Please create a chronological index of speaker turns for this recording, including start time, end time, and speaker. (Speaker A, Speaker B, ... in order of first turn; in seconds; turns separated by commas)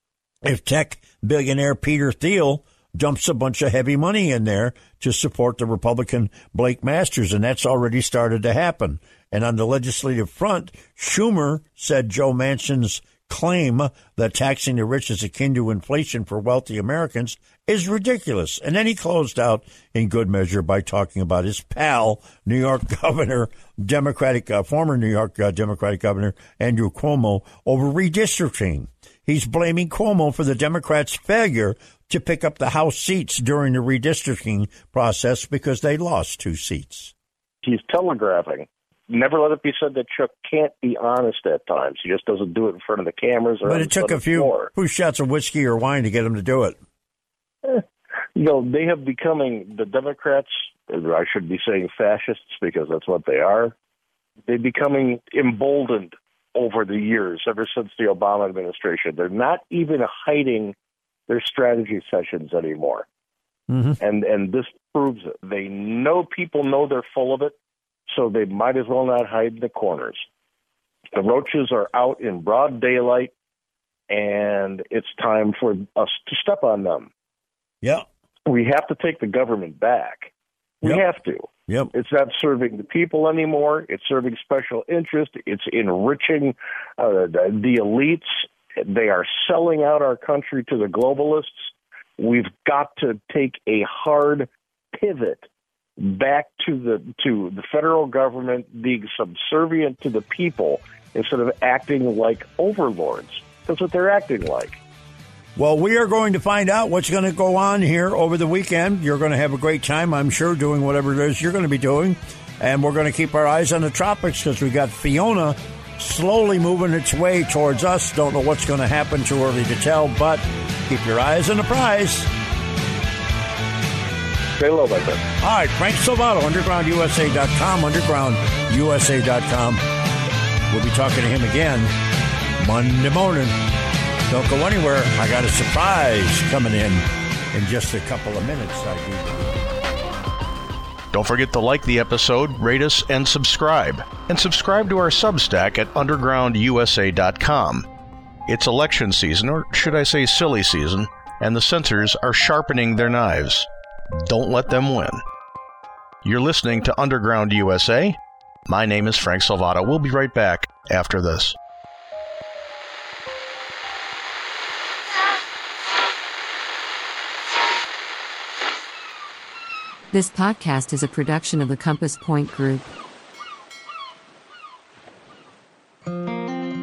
Speaker A: 0.4-37.1, Speaker B: 37.6-44.7, Speaker A: 43.6-46.8, Speaker B: 48.4-53.7, Speaker B: 54.5-60.7, Speaker B: 61.3-63.0, Speaker A: 63.7-64.0, Speaker B: 64.0-67.5, Speaker B: 68.1-70.2, Speaker B: 71.1-73.3, Speaker B: 74.1-77.1, Speaker B: 78.5-80.3, Speaker B: 80.8-95.5, Speaker B: 96.0-104.8, Speaker A: 105.5-122.3, Speaker B: 124.6-125.2, Speaker A: 125.4-129.8, Speaker A: 130.7-131.9, Speaker A: 132.6-133.6, Speaker A: 134.3-139.6, Speaker C: 141.1-147.9, Speaker C: 148.5-153.7, Speaker C: 154.2-155.2, Speaker C: 156.2-161.6, Speaker D: 170.1-172.9